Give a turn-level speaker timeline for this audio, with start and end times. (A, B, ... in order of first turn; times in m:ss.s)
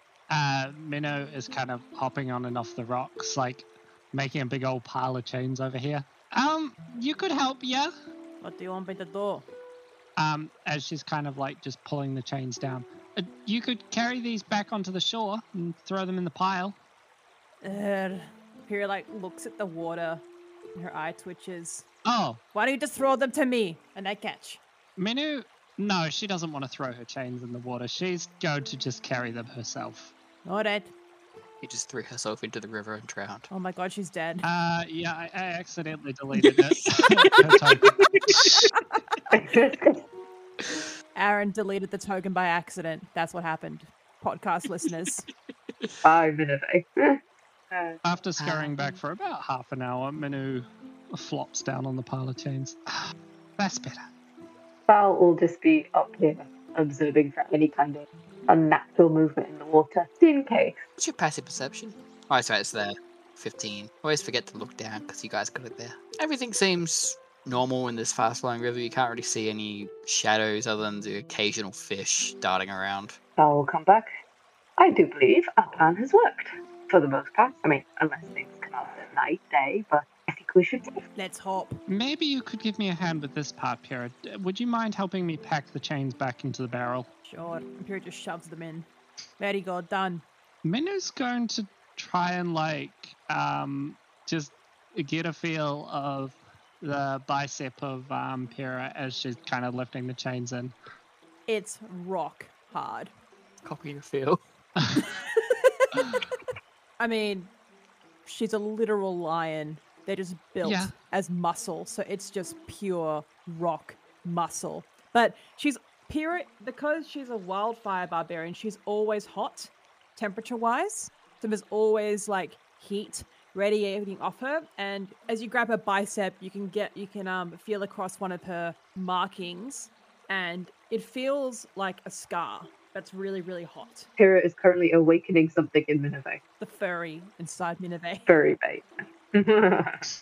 0:00.3-0:07.9 A
0:08.4-0:09.5 B
0:10.2-0:16.8 A
0:17.6-0:20.2 B
0:20.8-0:21.9 B
0:22.1-0:22.4 A
0:22.5-0:24.6 B
0:25.0-0:30.1 A
0:30.4-0:30.9 B
0:31.6-0:33.5 C
0:33.5-0:34.4 B
0:34.4-0:38.1 A
0:38.6-0:39.2 B
0:39.3-0:40.0 D
0:41.1-0:45.3 B
0:46.0-0:47.2 D
0:47.7-0:48.0 D
0:48.0-0:53.0 A
0:48.4-0:48.8 C
0:53.6-0:54.1 A
0:54.9-1:00.8 D
1:01.0-1:13.2 C
1:13.4-1:14.1 D
1:14.8-1:20.9 D
1:21.1-1:21.8 B
1:21.9-1:27.1 A
1:27.2-1:28.9 B
1:29.4-1:30.2 B
1:30.6-1:40.7 A
1:41.5-1:43.1 B
1:43.6-1:44.4 C
1:45.0-1:46.2 B
1:47.0-1:47.5 B
1:48.3-2:14.1 B
1:50.6-1:50.9 A
2:14.2-2:16.4 D
2:16.6-2:18.3 B
2:18.3-2:20.1 D